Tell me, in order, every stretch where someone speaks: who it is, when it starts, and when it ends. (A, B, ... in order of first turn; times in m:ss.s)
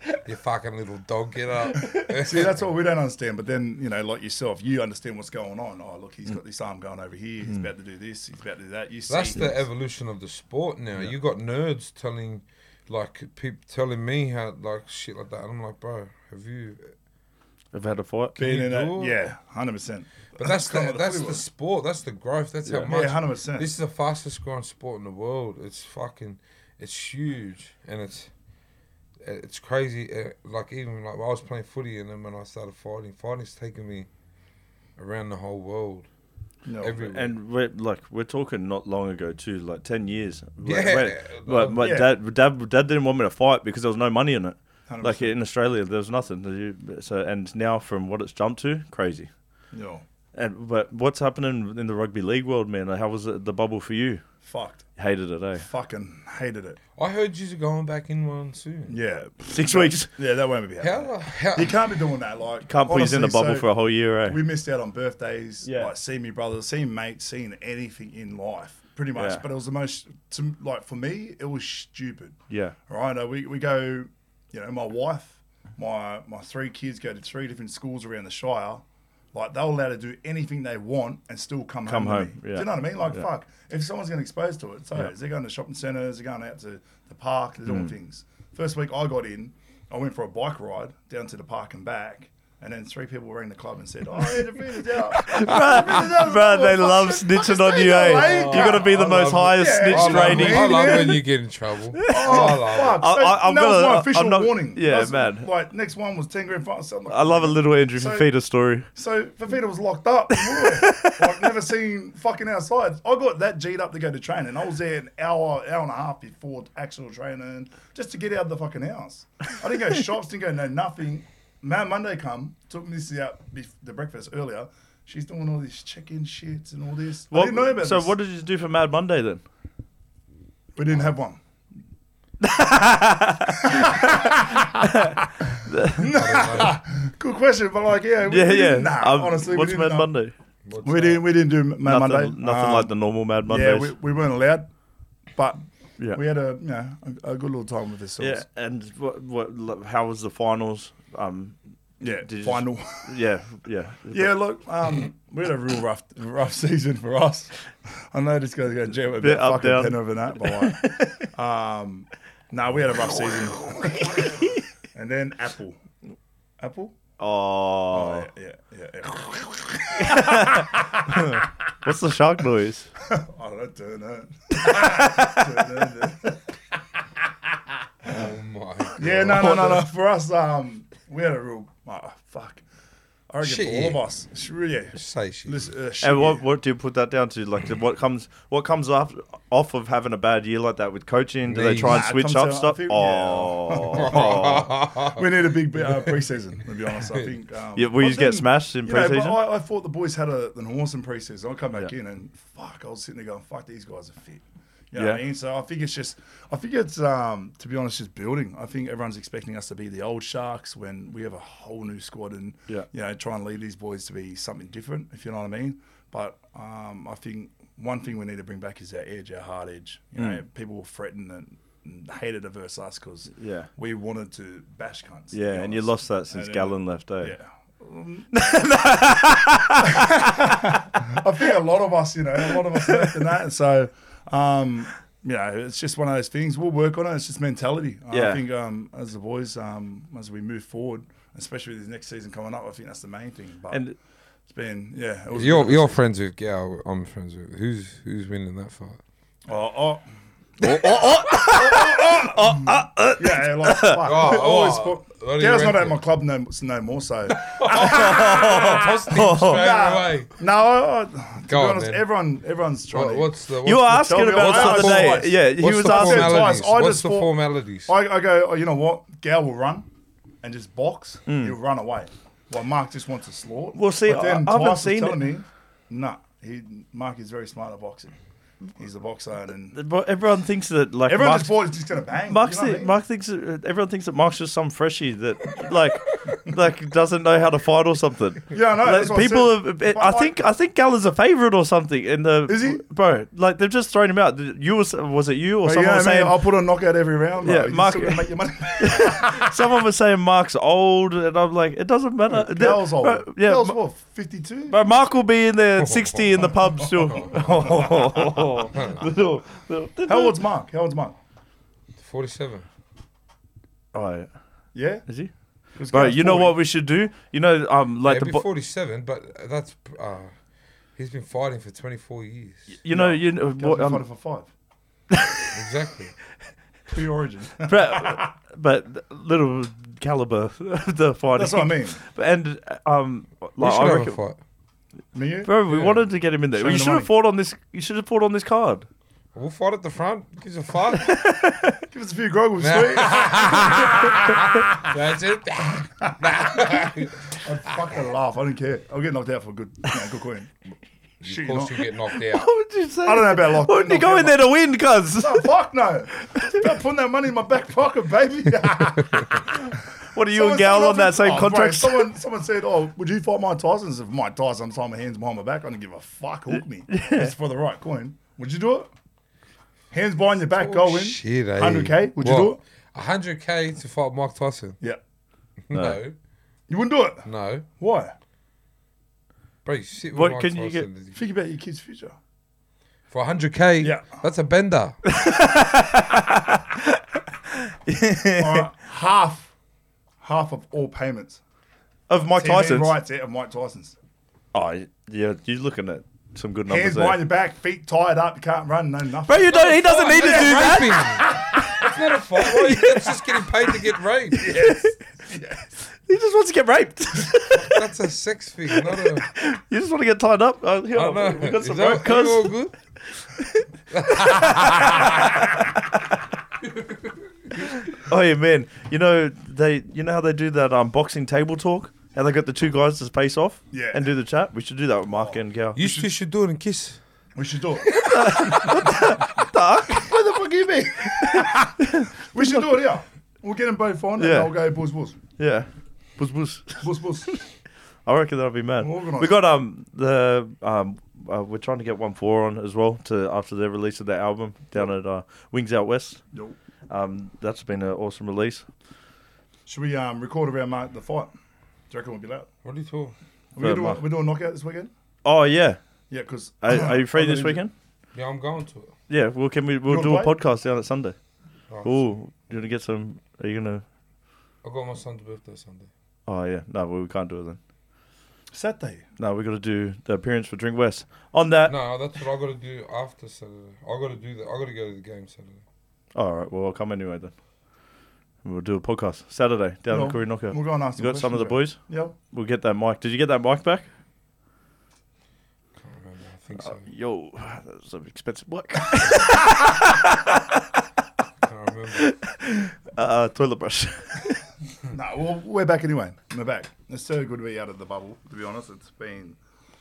0:00.2-0:02.7 A
0:01.8-0:02.1 B
0:02.1-0:09.6 C
0:09.1-0:17.0 A
0:17.7-0:18.4 B
0:18.4-0:19.2 A
0:18.4-0:21.4 C
0:20.4-0:28.3 A
0:22.8-0:23.7 C
0:29.2-0:34.1 A
0:35.0-0:36.1 A
0:36.6-0:37.0 C
0:36.8-0:37.3 A
0:37.0-0:49.3 B
0:40.6-0:41.9 A
0:41.8-0:42.2 C
0:44.9-0:45.3 C
0:49.7-0:50.0 C
0:50.3-0:54.2 B
0:54.4-0:54.9 C
0:55.0-0:55.6 B
0:55.6-0:56.8 C
0:57.0-0:59.0 A
0:58.9-1:03.7 C
0:59.5-1:00.1 B
1:00.8-1:01.8 A
1:02.7-1:04.4 B
1:04.2-1:41.2 C
1:05.6-1:05.9 B
1:09.2-1:09.4 B
1:12.5-1:12.8 B
1:21.9-1:23.3 B
1:27.7-1:27.9 B
1:35.1-1:40.9 B
1:38.2-1:39.3 A
1:39.9-1:43.0 A
1:42.0-1:45.5 B
1:42.1-1:48.3 C
1:47.1-1:48.9 B
1:49.0-2:08.1 C
1:50.4-1:51.5 B
2:07.3-2:09.4 B
2:10.8-2:11.4 C
2:12.4-2:16.1 B
2:13.7-2:14.7 C
2:16.0-2:20.1 C
2:16.1-2:16.8 A
2:18.3-2:20.3 B
2:20.6-2:21.2 A
2:20.8-2:22.9 C
2:21.8-2:23.9 B
2:23.5-2:24.7 C
2:25.4-2:25.6 C
2:26.1-2:28.4 C
2:28.2-2:34.4 B
2:32.0-2:33.2 C
2:34.1-2:37.6 C
2:38.1-2:45.8 C
2:39.2-2:41.3 B
2:44.0-2:44.6 B
2:46.6-2:47.0 C
2:47.2-2:48.3 B
2:47.9-2:51.4 C
2:50.0-2:52.9 B
2:53.0-2:56.4 C
2:54.5-2:55.5 B
2:58.0-2:59.7 A
2:59.0-3:02.6 C
2:59.3-2:59.8 B
3:03.3-3:06.4 C
3:03.4-3:04.0 A
3:05.0-3:05.7 A
3:06.0-3:14.7 B
3:11.5-3:12.1 A
3:11.8-3:48.3 C
3:13.9-3:16.1 A
3:17.8-3:19.4 B
3:25.0-3:25.2 B
3:40.2-3:40.4 B
3:43.4-3:43.7 B
3:45.3-3:47.4 B
3:48.3-3:50.8 B
3:49.9-4:03.8 C
3:52.5-3:53.1 B
3:58.1-3:58.4 B
4:03.7-4:04.0 B
4:04.5-4:06.0 C
4:05.3-4:09.0 A
4:09.5-4:10.0 C
4:10.6-4:14.3 B
4:10.6-4:23.3 C
4:14.0-4:16.0 A
4:17.3-4:20.3 A
4:17.7-4:19.7 B
4:21.5-4:22.0 A
4:22.9-4:27.9 A
4:23.6-4:26.4 B
4:24.0-4:29.9 C
4:30.4-4:38.2 C
4:31.3-4:31.6 B
4:33.7-4:35.2 B
4:38.8-4:39.8 C
4:39.7-4:41.6 B
4:41.1-4:43.0 C
4:42.3-4:56.4 B
4:48.5-4:50.4 C
4:52.5-4:52.8 C
4:55.6-4:59.5 C
4:57.4-5:03.8 B
5:02.3-5:04.8 C
5:04.7-5:10.4 B
5:05.8-5:06.3 A
5:07.1-5:08.3 C
5:07.2-5:07.6 A
5:10.1-5:11.2 C
5:12.0-5:12.7 A
5:13.9-5:14.3 B
5:14.7-5:15.2 C
5:15.0-5:15.3 B
5:15.7-5:16.6 C
5:15.9-5:18.4 B
5:18.0-5:20.3 A
5:21.0-5:22.7 A
5:22.8-5:24.0 B
5:22.9-5:24.5 C
5:25.1-5:25.5 B
5:25.5-5:26.1 A
5:26.9-5:28.3 C
5:27.7-5:34.2 B
5:31.4-5:32.0 C
5:33.6-5:34.4 A
5:35.1-5:35.9 C
5:35.4-5:38.9 B
5:36.5-5:37.1 C
5:39.3-5:41.2 A
5:41.0-5:41.8 B
5:41.9-5:44.8 C
5:42.6-5:47.8 A
5:46.0-5:50.5 C
5:51.2-5:51.8 C
5:51.2-5:52.5 A
5:52.1-5:55.5 B
5:53.0-5:54.4 C
5:55.2-6:08.9 C
5:56.2-5:56.6 B
6:00.1-6:02.1 B
6:06.9-6:07.3 B
6:09.9-6:12.6 C
6:10.6-6:14.8 A
6:15.7-6:16.2 A
6:15.7-6:16.0 B
6:16.7-6:18.2 C
6:17.2-6:17.7 A
6:19.6-6:21.2 A
6:20.1-6:20.9 B
6:21.1-6:22.2 C
6:23.1-6:25.0 A
6:23.8-6:24.2 C
6:25.1-6:28.7 B
6:28.4-6:29.5 C
6:30.2-6:31.4 C
6:32.1-6:33.0 B
6:32.4-6:34.0 C
6:34.5-6:37.2 B
6:36.7-6:41.9 C
6:39.3-6:41.2 B
6:39.6-6:44.5 A
6:42.5-6:43.2 B
6:44.3-6:45.0 B
6:44.4-6:45.7 C
6:45.9-6:47.9 B
6:47.5-6:49.3 A
6:48.7-6:56.2 B
6:50.9-6:52.8 A
6:53.9-6:55.5 A
6:56.6-6:57.1 A
6:57.6-7:05.8 B
7:03.7-7:04.0 C
7:05.1-7:06.0 C
7:05.8-7:07.0 A
7:07.4-7:08.6 C
7:08.0-7:10.4 B
7:10.1-7:15.2 C
7:10.9-7:12.6 B
7:14.2-7:14.6 B
7:15.4-7:17.4 B
7:16.8-7:17.4 C
7:18.0-7:26.2 B
7:18.8-7:19.4 C
7:26.9-7:28.7 B
7:29.7-7:31.3 C
7:31.9-7:32.5 C
7:32.6-7:33.2 A
7:33.6-7:34.9 C
7:33.6-7:34.0 B
7:35.2-7:35.8 B
7:36.1-7:37.6 C
7:36.6-7:37.7 B
7:38.1-7:38.9 A
7:39.1-7:41.2 B
7:39.9-7:40.3 C
7:41.7-7:42.1 A
7:41.8-7:43.8 B
7:44.6-7:45.9 A
7:46.3-7:47.6 B
7:48.5-7:49.1 C
7:49.2-7:51.8 B
7:51.7-7:55.6 A
7:56.2-7:57.3 B
7:58.4-8:03.9 B
7:59.9-8:02.1 C
8:05.8-8:06.9 A
8:06.6-8:10.6 B
8:11.4-8:12.1 A
8:11.9-8:14.4 B
8:14.9-8:19.4 C